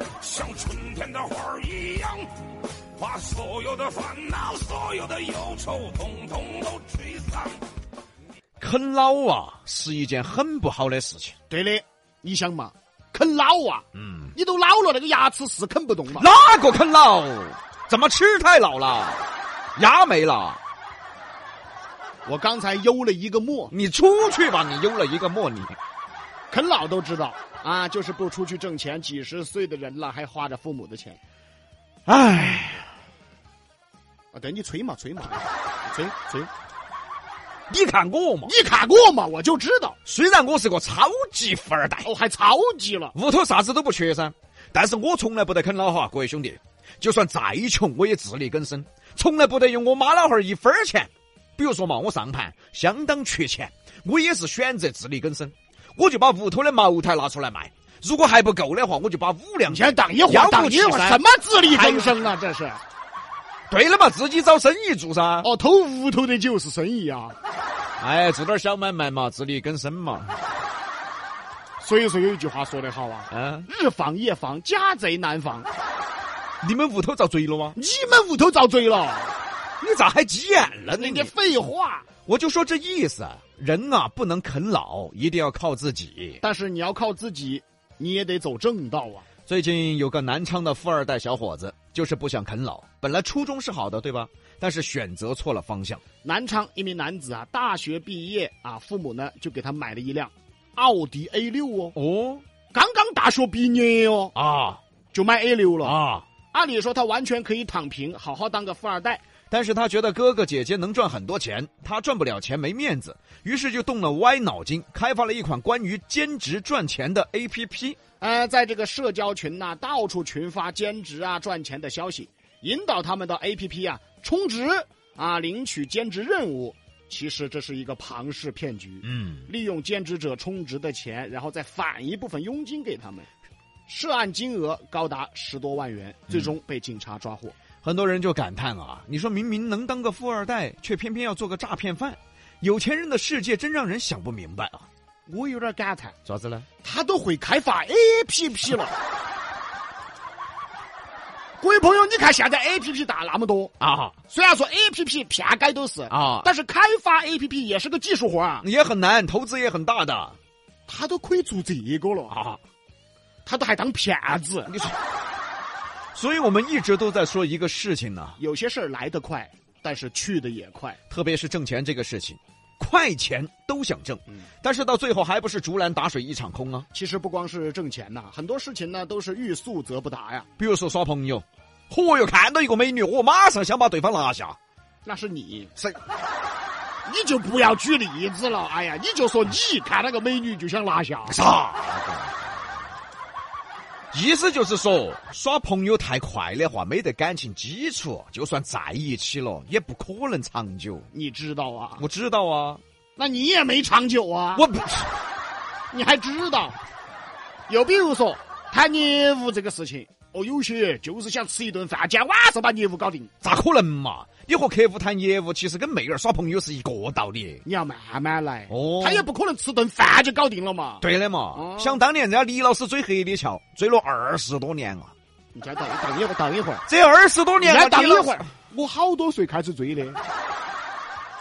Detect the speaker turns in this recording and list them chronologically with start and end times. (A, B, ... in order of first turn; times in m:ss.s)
0:00.2-0:02.3 A
0:03.0-0:07.5 A
0:08.6-0:11.3 B
0:11.5-0:16.3 C
0:13.9-0:14.3 B
0:16.1-0:19.2 B
0:19.8-0:20.6 B
0:22.2-0:23.7 C
0:23.7-0:25.8 B
0:26.5-0:31.2 C
0:32.1-0:32.9 B
0:34.3-0:36.5 C
0:37.7-0:38.5 B
0:38.4-0:40.0 C
0:40.0-0:42.1 B
0:42.0-0:43.1 C
0:43.1-1:02.2 B
0:59.7-1:02.8 C
1:03.7-1:05.5 B
1:05.4-1:07.4 C
1:08.0-1:10.3 B
1:11.8-1:15.7 C
1:13.3-1:13.7 B
1:16.6-1:17.8 B
1:17.7-1:19.3 C
1:19.8-1:21.3 B
1:20.9-1:22.0 C
1:22.3-1:26.4 B
1:26.4-1:29.2 C
1:29.5-1:36.0 B
1:36.2-1:41.9 C
1:41.9-1:42.4 B
1:42.7-1:44.3 C
1:44.3-1:44.8 B
1:45.1-1:46.0 C
1:45.8-1:46.2 B
1:46.5-1:49.2 C
1:49.5-1:58.0 B
1:58.2-2:13.3 C
2:09.0-2:09.5 B
2:13.9-2:17.5 C
2:17.8-2:24.9 B
2:25.3-2:26.2 C
2:26.2-2:26.6 B
2:26.8-2:28.9 C
2:31.6-2:33.7 C
2:33.8-2:34.1 B
2:34.3-2:38.6 C
2:36.1-2:36.5 B
2:38.6-2:40.4 B
2:40.9-2:42.4 C
2:42.3-2:42.6 B
2:43.4-2:44.7 C
2:44.7-2:44.9 B
2:46.1-2:48.4 B
2:48.4-2:51.0 C
2:51.1-2:56.9 B
2:56.9-3:00.5 C
3:00.6-3:04.6 B
3:05.0-3:05.7 C
3:07.0-3:11.4 C
3:11.3-3:12.4 B
3:14.1-3:21.1 B
3:21.1-3:22.0 C
3:22.0-3:22.8 B
3:23.2-3:24.6 C
3:24.5-3:25.2 B
3:25.9-3:26.8 C
3:27.7-3:33.3 C
3:33.4-3:37.6 B
3:37.6-3:41.0 C
3:38.7-3:39.3 B
3:41.0-3:45.1 B
3:41.5-3:42.0 C
3:45.5-3:46.8 C
3:46.9-3:48.4 B
3:47.6-3:50.2 C